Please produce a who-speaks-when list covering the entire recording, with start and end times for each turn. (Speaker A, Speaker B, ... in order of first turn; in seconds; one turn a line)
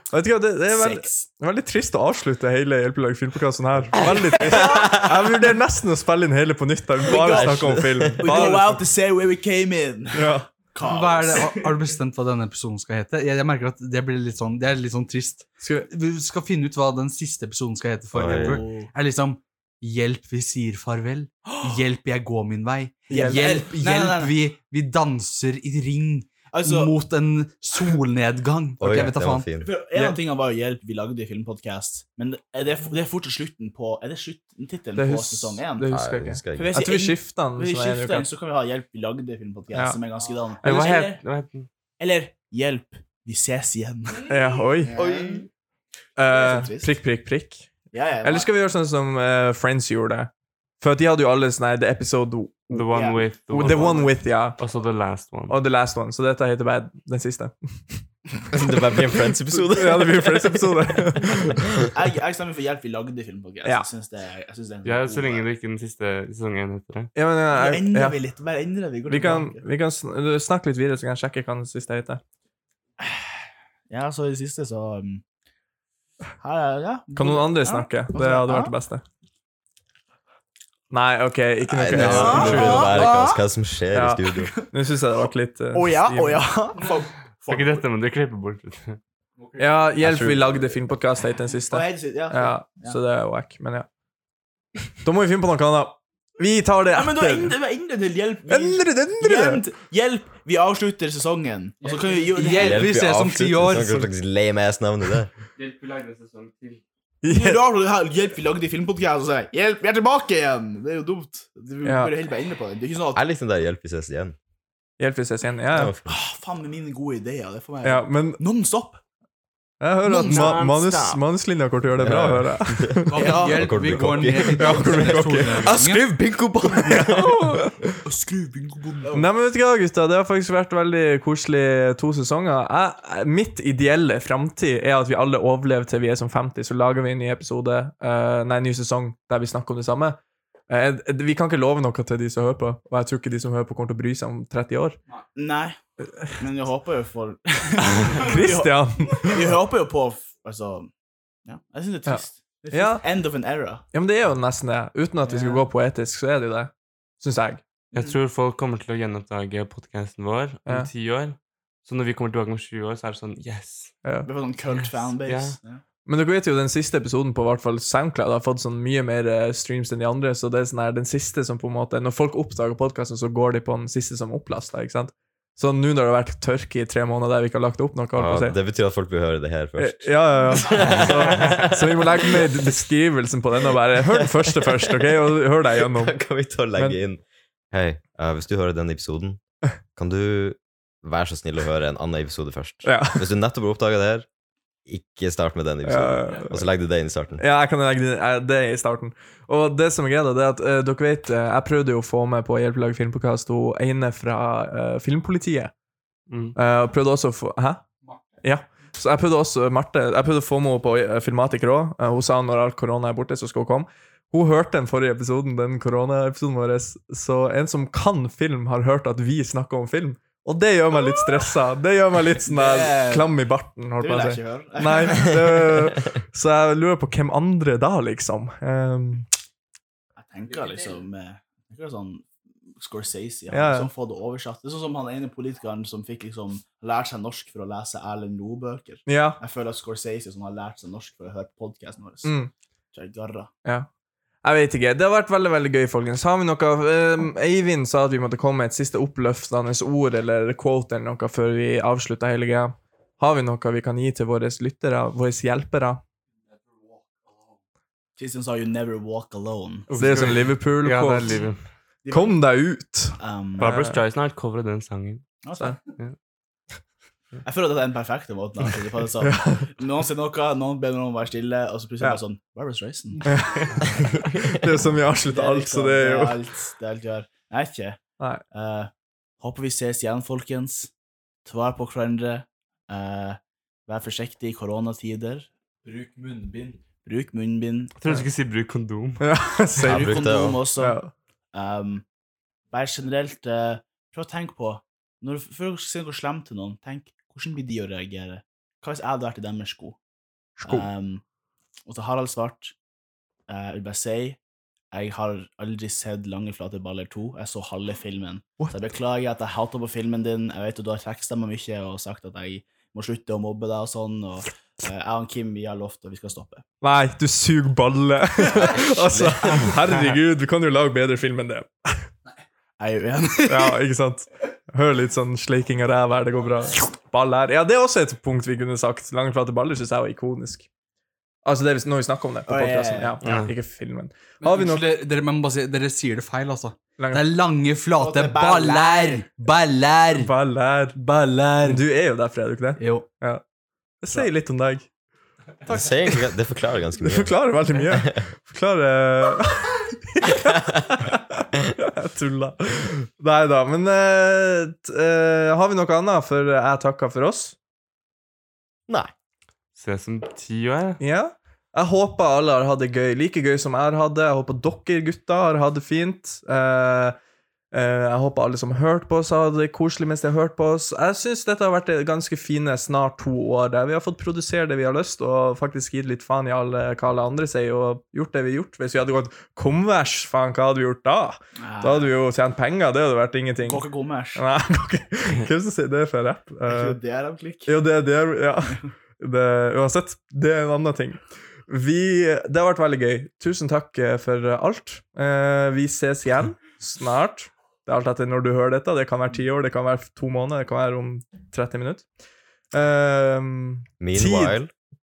Speaker A: 0.1-8.8
Speaker B: 0.7-1.3
Speaker B: 4.4-5.0
Speaker B: 7.0-11.8
Speaker C: 7.2-8.2
Speaker A: 10.1-10.5
Speaker D: 10.8-29.5
Speaker A: 15.6-15.9
Speaker C: 18.1-18.6
Speaker B: 18.2-18.9
Speaker B: 21.4-21.8
Speaker A: 23.1-23.6
Speaker B: 23.1-24.4
Speaker B: 26.5-26.9
Speaker C: 28.8-29.7
Speaker B: 29.6-35.9
Speaker A: 35.0-38.3
Speaker C: 35.9-36.7
Speaker B: 36.5-41.2
Speaker E: 40.6-41.7
Speaker B: 42.0-45.5
Speaker A: 44.3-45.0
Speaker C: 44.9-45.5
Speaker A: 46.2-47.7
Speaker B: 46.3-46.9
Speaker B: 47.9-48.5
Speaker A: 48.2-52.9
Speaker E: 52.7-55.6
Speaker B: 52.9-54.2
Speaker A: 53.5-54.6
Speaker A: 55.5-58.0
Speaker C: 58.5-61.9
Speaker A: 59.5-61.6
Speaker B: 61.8-65.5
Speaker E: 64.8-67.1
Speaker A: 67.2-68.2
Speaker B: 67.5-69.7
Speaker A: 69.1-72.2
Speaker B: 73.0-73.3
Speaker B: 73.9-75.2
Speaker B: 76.4-78.7
Speaker A: 77.2-79.0
Speaker A: 80.9-83.0
Speaker C: 81.9-84.5
Speaker D: 81.9-83.1
Speaker B: 82.0-83.4
Speaker A: 83.9-86.5
Speaker B: 85.7-87.8
Speaker E: 87.5-89.0
Speaker A: 89.6-93.9
Speaker C: 90.0-90.6
Speaker B: 91.7-93.0
Speaker A: 95.0-97.5
Speaker B: 96.9-103.0
Speaker A: 98.5-99.6
Speaker E: 101.8-102.6
Speaker D: 102.3-104.1
Speaker C: 102.6-105.3
Speaker E: 105.5-106.8
Speaker A: 107.2-107.6
Speaker B: 107.3-113.2
Speaker A: 111.8-112.1
Speaker C: 113.1-114.4
Speaker A: 115.0-115.9
Speaker C: 115.7-116.1
Speaker B: 116.1-119.0
Speaker A: 117.8-118.4
Speaker A: 119.8-123.2
Speaker E: 120.2-121.0
Speaker C: 120.3-121.2
Speaker C: 122.0-125.7
Speaker D: 123.1-127.1
Speaker B: 123.2-123.6
Speaker A: 124.5-127.8
Speaker C: 126.8-127.4
Speaker B: 128.0-129.3
Speaker A: 129.1-145.0
Speaker B: 145.4-150.9
Speaker A: 148.0-149.5
Speaker B: 151.5-153.8
Speaker A: 152.7-153.1
Speaker A: 153.9-157.6
Speaker B: 155.2-155.6
Speaker E: 157.9-163.9
Speaker A: 164.0-164.3
Speaker B: 164.2-165.8
Speaker E: 164.7-165.6
Speaker A: 166.1-178.6
Speaker C: 178.2-182.5
Speaker A: 179.8-186.2
Speaker C: 184.2-185.2
Speaker C: 185.8-189.4
Speaker C: 190.0-194.3
Speaker A: 192.8-193.3
Speaker C: 194.9-197.4
Speaker A: 195.8-196.7
Speaker A: 197.4-205.7
Speaker E: 206.3-206.6
Speaker A: 206.6-207.8
Speaker A: 208.4-229.3
Speaker B: 222.5-223.4
Speaker B: 224.0-225.9
Speaker B: 230.2-242.3
Speaker A: 233.5-233.9
Speaker A: 239.1-239.4
Speaker A: 242.2-242.5
Speaker B: 242.9-243.5
Speaker A: 244.4-256.0
Speaker B: 258.2-259.9
Speaker E: 259.9-261.6
Speaker A: 259.9-261.4
Speaker B: 262.1-262.4
Speaker A: 262.1-264.0
Speaker B: 263.2-263.8
Speaker E: 263.6-265.2
Speaker B: 265.4-265.8
Speaker B: 267.4-274.0
Speaker A: 269.2-269.7
Speaker A: 273.3-273.9
Speaker A: 274.4-276.4
Speaker B: 275.2-278.0
Speaker B: 278.5-280.9
Speaker B: 281.4-288.0
Speaker E: 288.0-289.2
Speaker A: 289.2-290.2
Speaker B: 289.8-291.0
Speaker C: 289.9-290.6
Speaker A: 290.8-291.1
Speaker B: 291.5-292.1
Speaker B: 292.7-300.0
Speaker A: 300.6-300.9
Speaker B: 300.6-301.2
Speaker B: 301.9-302.7
Speaker B: 303.5-304.4
Speaker B: 304.9-316.6
Speaker A: 316.8-322.1
Speaker B: 322.8-323.8
Speaker A: 323.5-330.7
Speaker A: 331.4-334.9
Speaker B: 332.5-333.2
Speaker E: 333.2-333.5
Speaker D: 334.4-340.3
Speaker A: 337.0-337.2
Speaker B: 338.0-339.2
Speaker A: 340.1-341.0
Speaker D: 341.0-341.8
Speaker A: 341.6-343.4
Speaker D: 342.8-343.1
Speaker A: 344.0-344.9
Speaker C: 345.7-348.1
Speaker A: 347.0-357.6
Speaker E: 359.8-361.0
Speaker A: 361.0-367.2
Speaker A: 367.7-383.8
Speaker B: 381.6-382.1
Speaker B: 383.6-384.4
Speaker A: 384.4-387.0
Speaker B: 386.7-387.8
Speaker A: 387.7-402.1
Speaker A: 402.7-404.6
Speaker C: 404.0-404.7